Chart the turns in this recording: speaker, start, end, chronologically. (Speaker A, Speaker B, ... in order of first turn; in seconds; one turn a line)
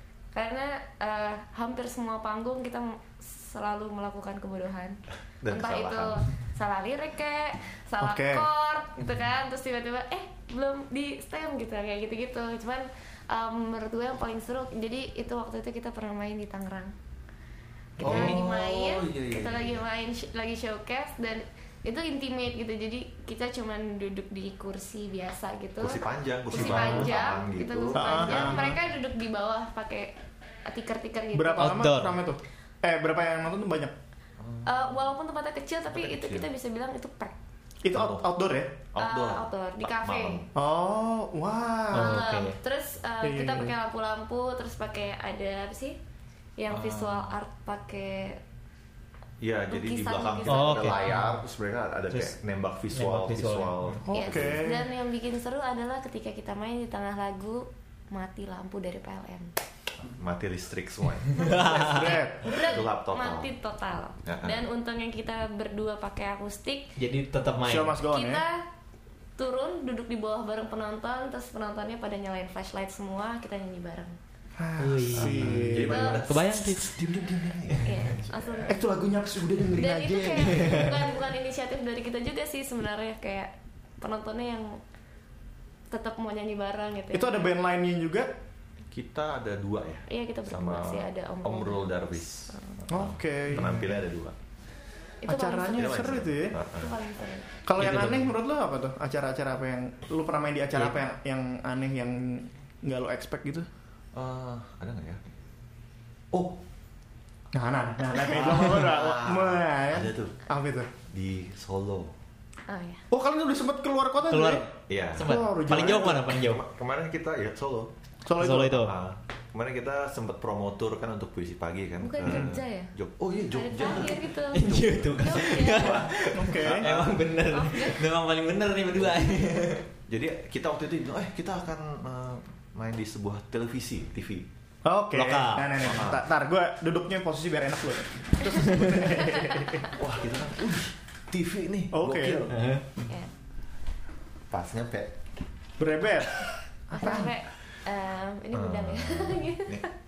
Speaker A: 0.3-16.9
Speaker B: 5.4-6.2
Speaker C: 8.0-8.5
Speaker A: 18.0-30.1
Speaker B: 18.0-19.8
Speaker B: 25.8-28.8
Speaker C: 27.9-28.7
Speaker A: 30.7-31.8
Speaker C: 31.3-33.9
Speaker D: 31.6-32.2
Speaker B: 34.4-34.7
Speaker A: 34.6-37.3
Speaker B: 35.9-36.5
Speaker C: 37.8-38.8
Speaker B: 37.9-38.2
Speaker B: 38.9-40.5
Speaker A: 39.0-40.4
Speaker C: 40.5-42.2
Speaker D: 41.9-42.5
Speaker A: 41.9-46.0
Speaker C: 43.2-43.7
Speaker A: 46.6-48.4
Speaker B: 46.7-47.3
Speaker B: 49.4-54.7
Speaker A: 49.7-51.1
Speaker D: 50.5-51.3
Speaker D: 52.1-52.4
Speaker D: 52.9-54.0
Speaker C: 54.0-54.9
Speaker A: 54.1-59.5
Speaker B: 60.1-61.8
Speaker A: 61.3-67.0
Speaker D: 61.4-62.2
Speaker C: 61.8-62.4
Speaker B: 62.5-63.5
Speaker B: 64.2-64.6
Speaker D: 67.0-68.0
Speaker C: 67.6-68.4
Speaker A: 68.0-68.6
Speaker A: 69.4-74.2
Speaker C: 74.6-76.1
Speaker D: 74.8-77.0
Speaker B: 75.1-78.3
Speaker A: 75.8-76.2
Speaker D: 77.7-78.0
Speaker A: 77.8-78.8
Speaker C: 78.7-81.0
Speaker A: 79.7-84.8
Speaker D: 80.5-80.9
Speaker A: 85.9-87.5
Speaker C: 87.1-88.3
Speaker B: 88.9-94.3
Speaker A: 90.1-92.8
Speaker C: 92.9-93.8
Speaker A: 95.2-96.1
Speaker C: 95.2-96.6
Speaker B: 95.7-96.9
Speaker A: 96.7-97.5
Speaker C: 97.6-103.7
Speaker D: 97.8-98.3
Speaker B: 104.1-105.2
Speaker B: 106.3-106.6
Speaker C: 107.5-110.9
Speaker B: 108.2-110.3
Speaker B: 111.1-112.1
Speaker A: 112.7-113.0
Speaker C: 113.1-114.6
Speaker D: 114.3-116.6
Speaker B: 114.9-117.9
Speaker C: 115.2-116.2
Speaker C: 118.2-118.8
Speaker D: 118.4-118.9
Speaker B: 118.7-127.3
Speaker A: 122.0-122.9
Speaker A: 123.5-126.0
Speaker D: 124.5-129.8
Speaker C: 126.3-126.9
Speaker A: 127.5-128.0
Speaker B: 130.1-134.5
Speaker C: 134.8-139.9
Speaker D: 135.1-135.8
Speaker B: 135.8-136.2
Speaker B: 139.9-142.6
Speaker C: 141.9-142.5
Speaker D: 142.5-142.8
Speaker A: 143.0-143.3
Speaker B: 144.5-145.1
Speaker C: 145.8-147.3
Speaker A: 146.9-149.9
Speaker B: 148.5-149.8